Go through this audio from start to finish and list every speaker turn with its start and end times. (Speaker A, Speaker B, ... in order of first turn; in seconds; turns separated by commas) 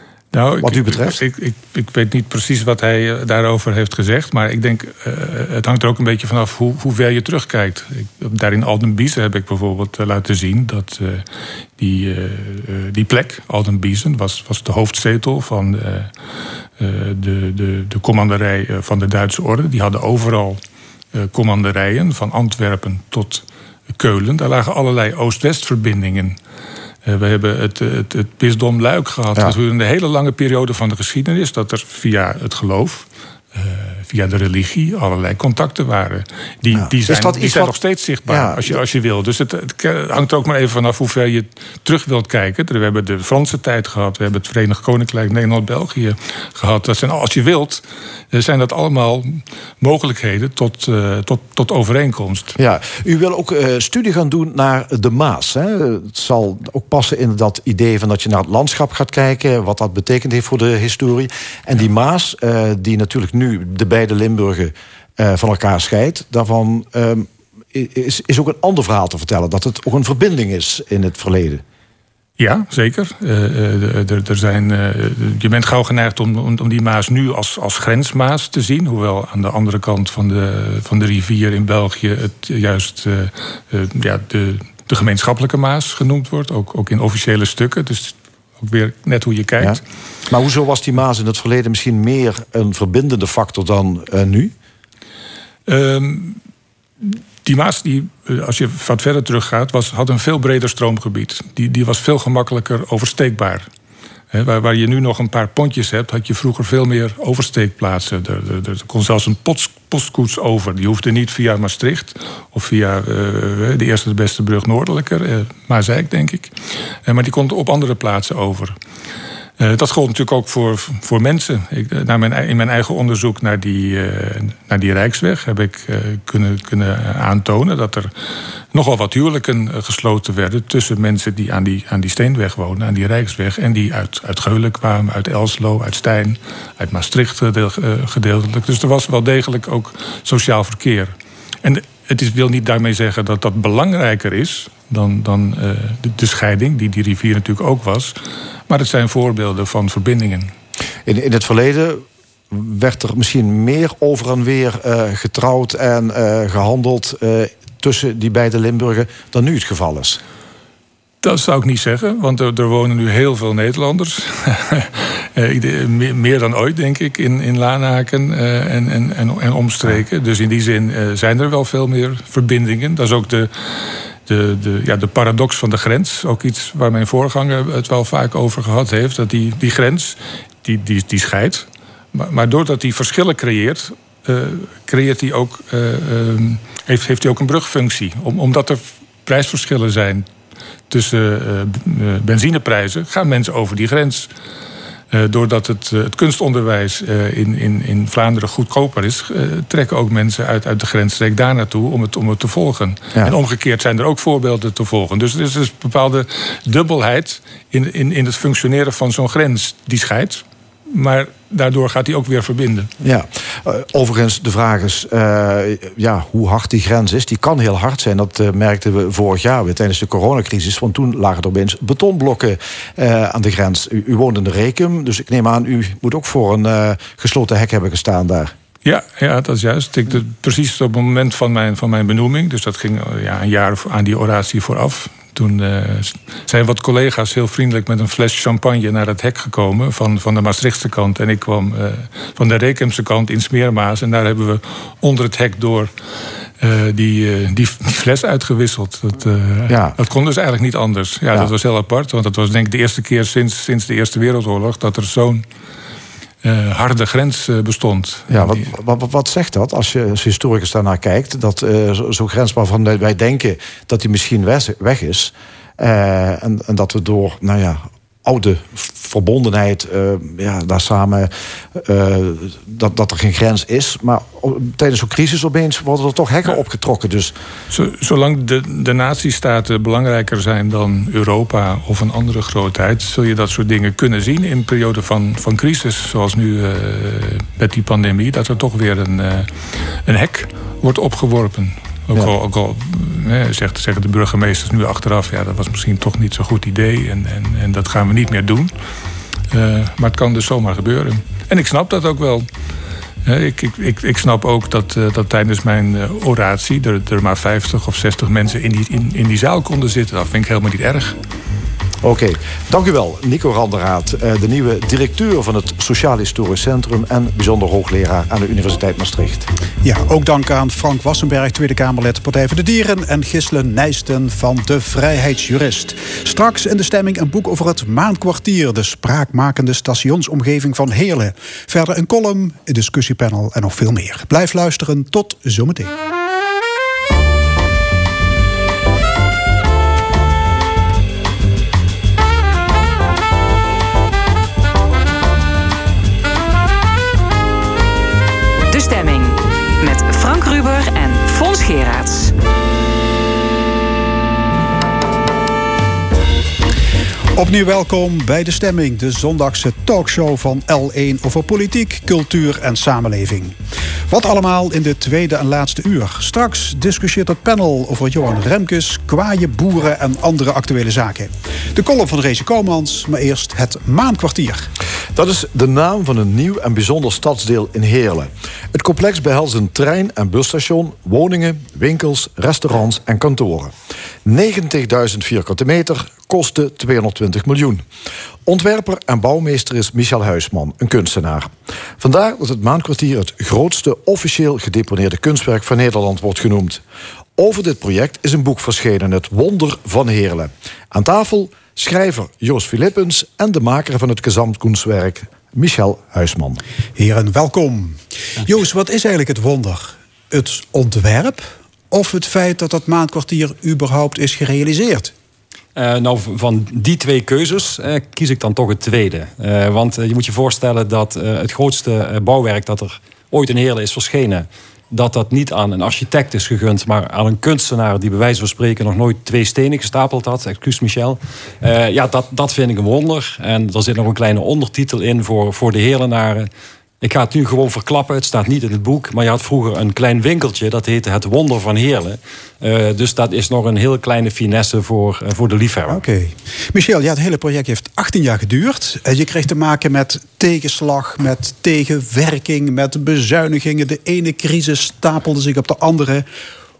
Speaker A: 0.3-11.2, Speaker B: 0.6-1.2, Speaker A: 11.8-16.1, Speaker A: 16.8-20.6, Speaker A: 21.1-23.4, Speaker A: 23.9-26.4, Speaker A: 27.0-52.5, Speaker B: 36.7-37.8, Speaker B: 38.3-38.8, Speaker B: 52.5-71.6, Speaker A: 72.4-89.8, Speaker B: 89.6-94.5, Speaker A: 95.7-96.4, Speaker A: 97.0-103.7, Speaker A: 104.3-116.5, Speaker A: 117.0-118.7, Speaker A: 119.6-128.1, Speaker A: 128.7-148.1, Speaker A: 148.7-150.5, Speaker B: 151.1-160.2, Speaker A: 161.2-190.3, Speaker A: 190.9-194.3, Speaker A: 195.1-212.9, Speaker B: 213.0-228.5, Speaker A: 228.8-245.9, Speaker A: 246.6-255.4, Speaker B: 249.7-250.0, Speaker A: 256.4-258.7, Speaker B: 258.3-277.3, Speaker A: 277.7-289.5, Speaker A: 290.0-298.7, Speaker A: 299.5-302.5, Speaker A: 303.2-311.2, Speaker B: 312.0-319.5, Speaker C: 319.8-335.9, Speaker D: 348.7-352.3, Speaker C: 357.4-363.6, Speaker C: 364.1-374.7, Speaker B: 375.1-383.7, Speaker B: 384.2-387.8, Speaker B: 388.4-396.8, Speaker B: 397.4-406.6, Speaker C: 406.9-415.1, Speaker E: 415.8-436.5, Speaker E: 437.0-446.0, Speaker C: 445.9-456.2